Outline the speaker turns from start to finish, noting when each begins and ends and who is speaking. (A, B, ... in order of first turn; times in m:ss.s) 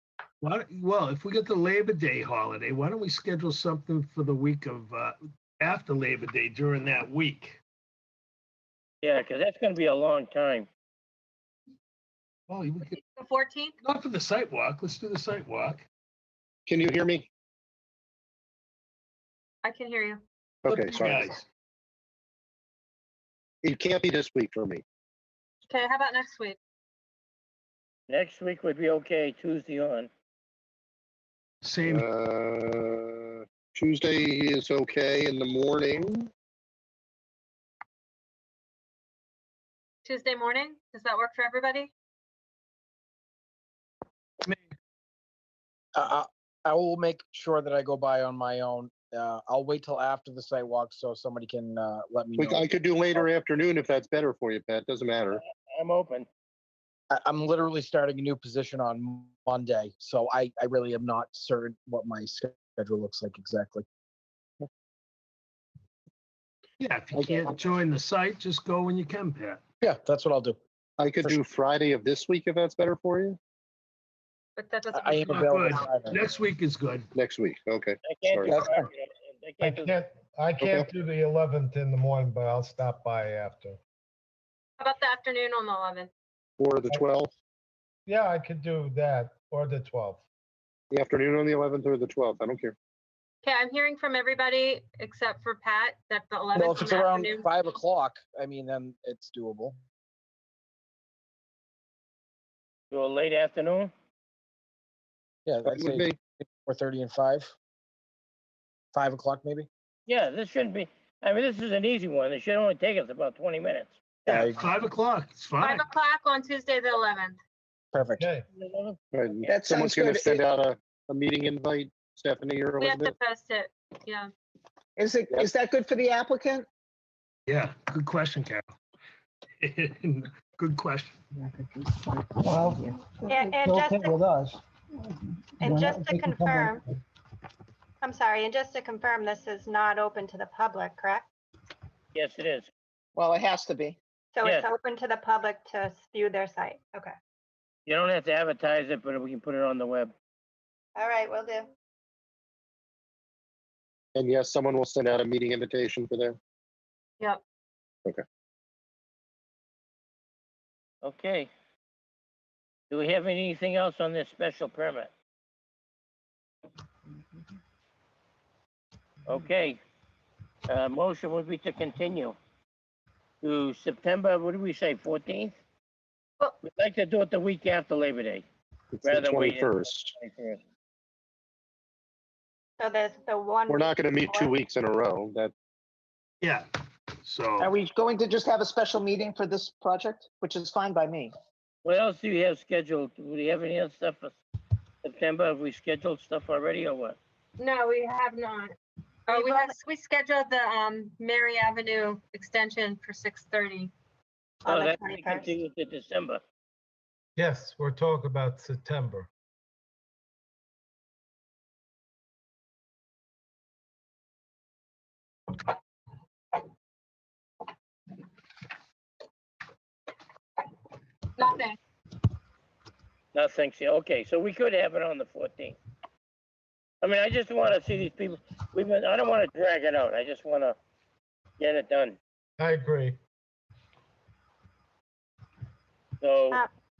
0:00.4-0:07.6 A
0:09.0-0:10.7 B
0:12.5-0:13.0 A
0:13.2-0:13.7 C
0:13.8-0:15.8 A
0:16.7-0:17.3 D
0:19.6-0:20.2 C
0:20.6-0:21.3 D
0:20.7-0:21.4 A
0:23.6-0:24.8 D
0:25.7-0:26.6 C
0:28.1-0:30.1 B
0:31.6-0:32.1 A
0:31.8-0:36.3 D
0:40.0-0:41.9 C
0:45.9-0:53.3 E
0:52.4-0:55.4 D
0:55.5-0:56.3 B
0:57.1-1:03.8 E
1:06.8-1:09.6 A
1:09.8-1:10.6 E
1:11.0-1:13.4 D
1:14.6-1:15.5 C
1:14.9-1:16.2 E
1:15.2-1:17.1 A
1:17.1-1:18.6 D
1:18.1-1:19.9 B
1:18.5-1:18.9 E
1:19.6-1:23.8 F
1:20.6-1:20.9 D
1:24.8-1:26.1 C
1:26.6-1:27.3 D
1:28.1-1:30.2 F
1:30.9-1:32.7 D
1:33.4-1:37.6 C
1:36.5-1:39.8 E
1:42.9-1:43.9 B
1:45.4-1:47.5 E
1:45.7-1:46.2 D
1:48.9-1:49.7 E
1:50.1-1:54.4 B
1:54.3-1:54.6 E
1:54.3-1:55.9 A
1:55.6-1:57.4 C
1:57.9-1:58.3 E
1:58.2-1:58.4 F
1:58.5-1:59.5 B
1:59.1-2:03.1 D
1:59.6-2:00.4 G
2:02.8-2:04.3 C
2:05.0-2:06.6 G
2:07.5-2:08.7 A
2:09.6-2:11.3 A
2:12.1-2:16.8 H
2:13.3-2:14.2 I
2:15.6-2:16.8 I
2:18.0-2:21.3 I
2:22.1-2:22.7 B
2:23.2-2:24.0 G
2:24.3-2:27.1 I
2:27.8-2:30.1 B
2:31.0-2:31.7 I
2:34.2-2:36.4 D
2:41.0-2:41.5 B
2:42.9-2:45.1 B
2:49.3-2:49.8 B
2:50.7-2:52.4 B
2:53.4-2:55.5 B
2:56.6-2:58.4 B
2:58.9-3:00.1 D
2:59.0-3:00.6 B
3:02.8-3:04.5 I
3:03.7-3:05.5 D
3:06.4-3:06.7 A
3:07.2-3:07.7 A
3:07.6-3:11.3 G
3:11.8-3:14.4 B
3:15.0-3:17.2 B
3:17.6-3:18.7 C
3:19.3-3:23.9 C
3:19.3-3:19.7 I
3:24.6-3:25.6 I
3:24.6-3:26.4 B
3:27.4-3:29.3 F
3:41.4-3:41.8 C
3:43.3-3:45.8 B
3:47.0-3:50.8 B
3:51.6-3:52.2 B
3:52.6-3:53.2 F
3:56.2-3:56.6 B